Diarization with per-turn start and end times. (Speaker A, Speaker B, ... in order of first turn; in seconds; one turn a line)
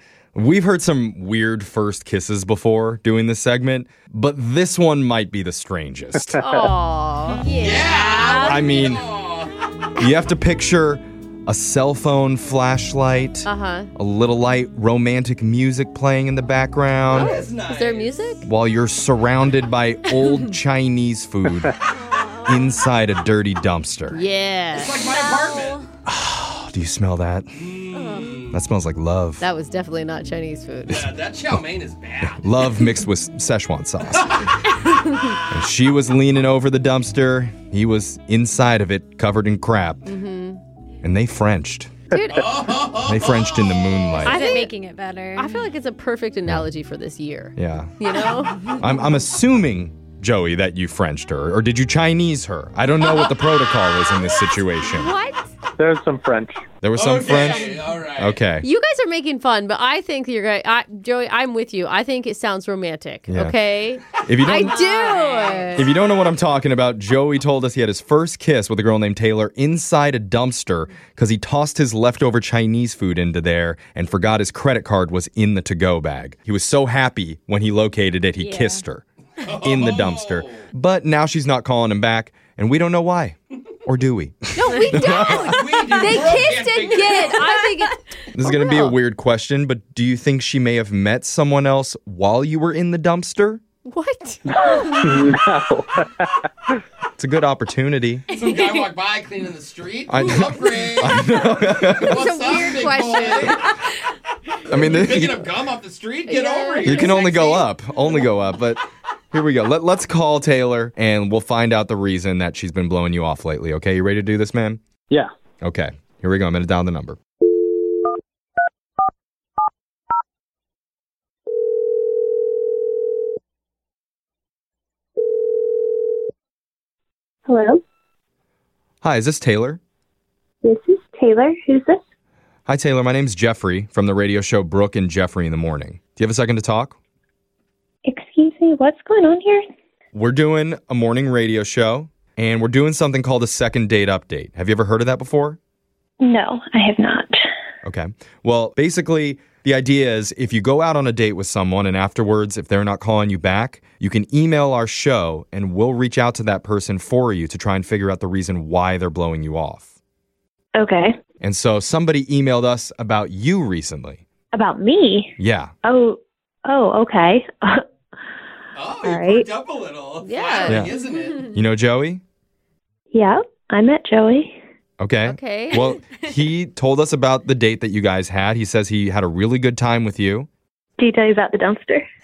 Speaker A: 0.3-6.4
Speaker B: 6.2-6.7
Speaker C: 6.4-8.6
Speaker D: 7.6-9.7
Speaker A: 8.4-9.0
Speaker A: 10.0-17.4
Speaker C: 13.5-13.9
Speaker D: 17.1-18.2
Speaker C: 17.2-18.5
Speaker A: 18.4-21.7
Speaker E: 22.1-22.8
Speaker A: 22.5-24.2
Speaker C: 24.1-25.0
Speaker D: 24.7-25.8
Speaker E: 25.0-25.9
Speaker A: 26.1-27.6
Speaker D: 27.6-28.6
Speaker E: 27.9-28.4
Speaker A: 28.5-29.4
Speaker C: 29.4-31.1
Speaker D: 30.9-32.6
Speaker A: 32.4-34.4
Speaker D: 34.1-34.5
Speaker C: 35.0-35.3
Speaker D: 35.1-35.5
Speaker A: 35.5-40.1
Speaker C: 40.1-40.6
Speaker A: 41.0-41.9
Speaker C: 42.1-42.8
Speaker D: 42.3-44.2
Speaker A: 43.1-44.4
Speaker C: 44.2-44.7
Speaker E: 44.2-45.7
Speaker C: 45.4-48.6
Speaker A: 47.6-47.9
Speaker A: 48.8-55.1
Speaker D: 53.1-53.3
Speaker C: 54.8-55.5
Speaker B: 55.8-56.6
Speaker A: 56.8-58.7
Speaker D: 57.0-58.4
Speaker E: 57.4-57.8
Speaker C: 58.6-65.9
Speaker A: 63.3-63.6
Speaker A: 64.2-64.8
Speaker E: 64.5-65.8
Speaker A: 65.8-79.0
Speaker E: 78.4-78.8
Speaker D: 79.4-80.7
Speaker A: 79.6-85.6
Speaker C: 84.5-89.0
Speaker E: 84.9-85.4
Speaker D: 85.0-87.5
Speaker E: 85.9-86.2
Speaker E: 87.2-87.7
Speaker A: 88.3-93.6
Speaker C: 93.8-95.1
Speaker B: 95.0-96.3
Speaker A: 97.2-98.3
Speaker D: 98.3-103.7
Speaker E: 98.3-98.8
Speaker A: 100.1-102.3
Speaker C: 101.8-103.7
Speaker D: 104.7-107.6
Speaker A: 104.7-105.5
Speaker C: 106.3-107.6
Speaker A: 106.8-114.8
Speaker A: 115.6-117.2
Speaker F: 127.5-127.8
Speaker A: 129.0-129.8
Speaker F: 130.6-132.0
Speaker A: 132.7-137.0
Speaker F: 138.1-139.6
Speaker A: 140.1-145.6
Speaker F: 146.2-147.3
Speaker A: 147.8-159.9
Speaker F: 160.8-161.2
Speaker A: 161.4-164.2
Speaker F: 164.5-167.8
Speaker A: 165.4-165.7
Speaker D: 168.8-171.6
Speaker F: 169.0-169.5
Speaker C: 170.2-170.9
Speaker A: 170.7-170.9
Speaker E: 171.1-171.4
Speaker A: 171.5-172.2
Speaker F: 173.1-174.6
Speaker A: 175.0-180.5
Speaker C: 175.3-175.9
Speaker F: 181.0-182.0